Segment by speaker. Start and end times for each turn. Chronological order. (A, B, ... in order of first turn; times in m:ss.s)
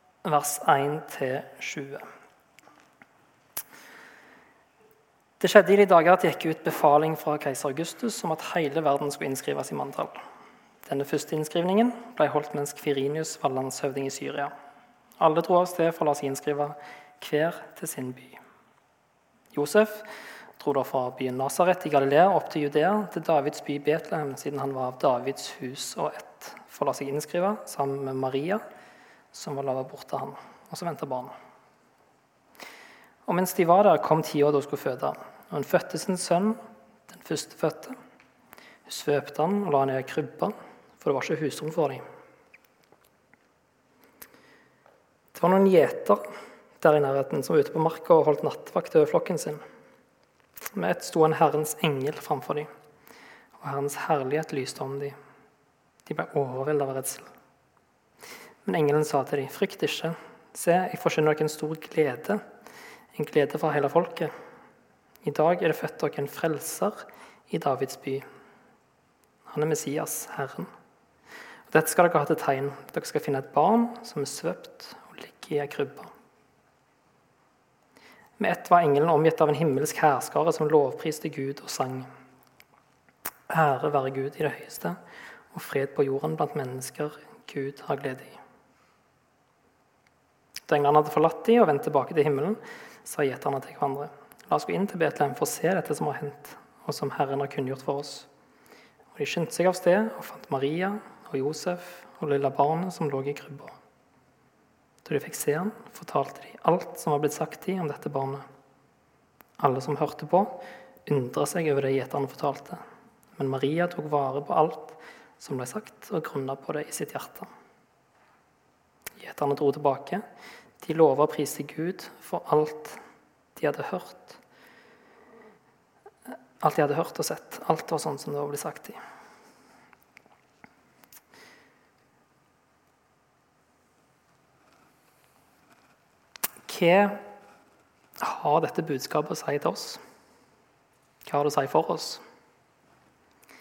0:00.2-0:02.0 A
0:05.4-0:10.2 A
0:10.8-0:14.5 A
0:15.2-0:18.4 A
0:19.5-0:20.1 A
0:20.6-0:28.6 A
0:29.3-0:31.3 A
0:33.3-0:36.6 A
0:37.1-0:38.0 A
0:38.9-0:42.0 A
0:45.3-0:46.2 A
0:46.8-0:49.6 A
0:50.7-0:52.7 A
0:53.6-0:55.1 A
0:56.1-0:57.3 A
0:58.6-1:02.4 A
1:03.1-1:04.3 A
1:05.2-1:08.2 A
1:09.5-1:10.7 A
1:11.7-1:16.1 A
1:18.4-1:22.1 A
1:23.5-1:25.0 A
1:25.5-1:28.4 A
1:30.7-1:38.3 A
1:39.1-1:43.8 A
1:45.0-1:48.4 A
1:49.6-1:52.8 A
1:53.4-1:57.5 A
1:59.2-2:00.2 A
2:00.8-2:03.0 A
2:03.6-2:04.4 A
2:06.3-2:09.0 A
2:16.7-2:17.2 A
2:18.2-2:20.0 A
2:21.2-2:22.2 A